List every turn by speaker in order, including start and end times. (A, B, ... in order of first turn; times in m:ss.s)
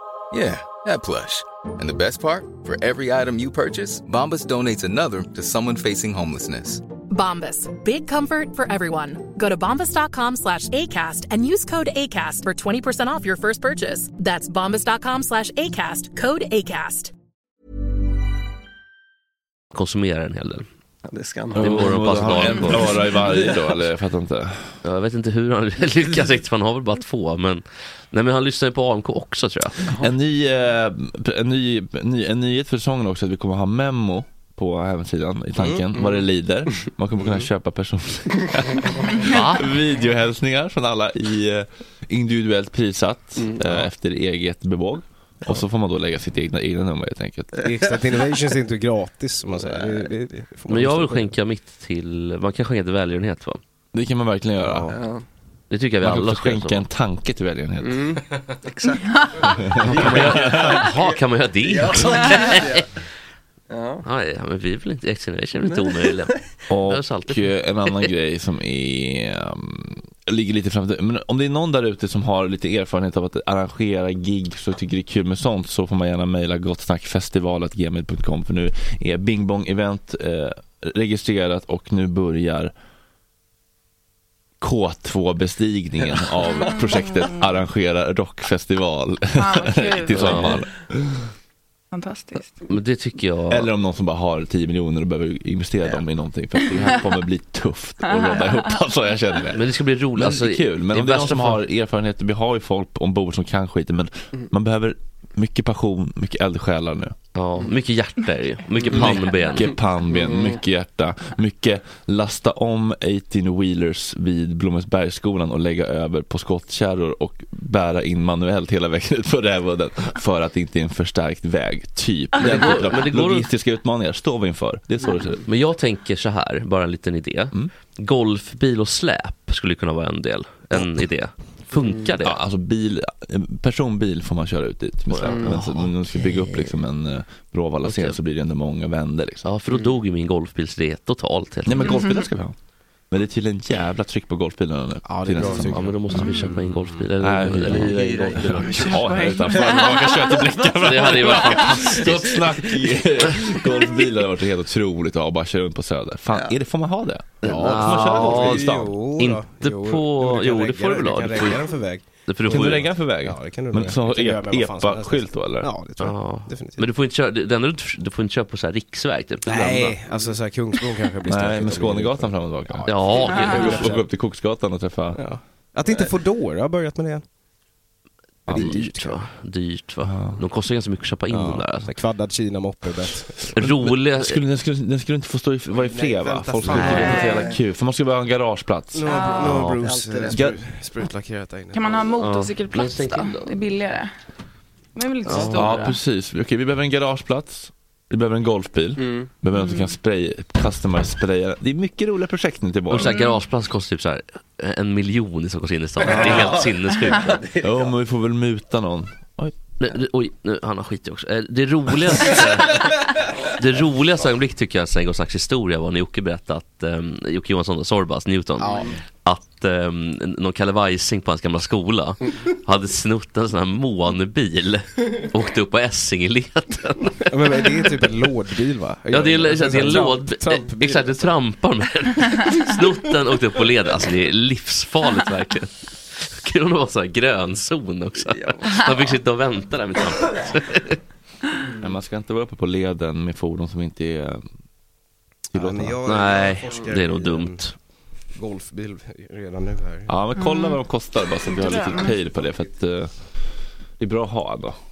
0:00.3-0:06.8 A
0:07.1-0:17.1 B
0:19.7-0:20.6 C
0:21.0-0:23.6 D
0:21.5-0:24.7 E
0:21.5-0:23.0 C
0:24.8-0:29.9 C
0:30.0-0:47.6 E
0:35.6-0:35.8 F
0:39.2-0:39.6 C
0:43.4-0:43.8 D
0:47.6-0:47.8 D
0:47.6-0:51.3 F
0:49.6-0:50.0 D
0:50.7-0:53.6 C
0:53.9-0:54.9 E
0:54.6-0:54.9 F
0:54.9-0:55.2 D
0:55.7-0:56.8 C
0:56.0-0:58.0 E
0:57.8-1:02.9 D
0:59.7-1:00.8 E
0:59.8-1:02.8 C
1:03.7-1:04.0 D
1:04.0-1:08.1 C
1:05.6-1:06.6 D
1:06.7-1:22.7 E
1:24.6-1:31.3 E
1:26.7-1:27.4 G
1:29.3-1:30.6 G
1:30.1-1:30.6 C
1:31.9-1:32.6 G
1:32.7-1:33.7 C
1:33.5-1:47.1 E
1:38.0-1:38.7 G
1:39.5-1:41.6 C
1:47.3-1:49.7 C
1:48.9-2:05.4 E
1:50.1-1:50.5 D
2:02.4-2:03.5 C
2:05.4-2:12.4 C
2:11.7-2:12.0 D
2:12.2-2:19.4 E
2:15.1-2:16.8 C
2:15.2-2:15.6 D
2:17.8-2:18.2 C
2:19.4-2:22.0 C
2:19.7-2:19.9 D
2:21.6-2:22.5 E
2:21.8-2:22.2 G
2:23.1-2:26.0 E
2:25.0-2:26.0 F
2:25.4-2:28.9 C
2:26.1-2:26.5 G
2:27.2-2:38.9 E
2:27.8-2:28.4 D
2:28.7-2:30.4 G
2:30.6-2:33.8 D
2:30.8-2:32.2 C
2:36.3-2:36.5 D
2:37.4-2:38.7 C
2:37.5-2:38.4 D
2:37.7-2:46.9 F
2:39.2-2:41.7 C
2:42.3-2:42.9 C
2:42.5-2:45.7 E
2:46.0-2:50.0 C
2:49.4-2:54.0 F
2:51.3-2:55.2 E
2:52.8-2:53.9 C
2:53.2-2:53.8 G
2:55.2-2:57.2 F
2:58.5-2:58.8 E
2:58.5-2:59.2 F
2:58.5-3:01.9 C
3:00.0-3:00.4 E
3:01.3-3:03.6 F
3:03.6-3:04.4 C
3:03.6-3:09.1 E
3:05.7-3:07.4 F
3:06.7-3:07.0 C
3:06.9-3:07.5 G
3:08.9-3:12.1 F
3:09.0-3:09.7 G
3:09.4-3:09.8 C
3:09.8-3:10.5 D
3:11.7-3:14.1 G
3:12.2-3:13.6 C
3:15.0-3:15.9 G
3:15.2-3:15.9 C
3:15.4-3:23.1 E
3:19.0-3:19.3 D
3:19.5-3:20.0 G
3:22.9-3:27.4 C
3:22.9-3:23.4 G
3:26.0-3:27.9 D
3:26.1-3:26.6 E
3:27.6-3:29.5 E
3:29.8-3:47.2 C
3:38.6-3:38.9 F
3:47.3-3:51.3 F
3:49.1-4:00.9 C
3:58.2-3:59.1 D
4:01.8-4:04.4 E
4:05.5-4:06.0 E
4:05.5-4:07.6 F
4:06.0-4:07.7 C
4:08.3-4:10.1 F
4:10.1-4:13.1 E
4:10.3-4:10.8 G
4:11.4-4:12.2 G
4:14.0-4:14.8 E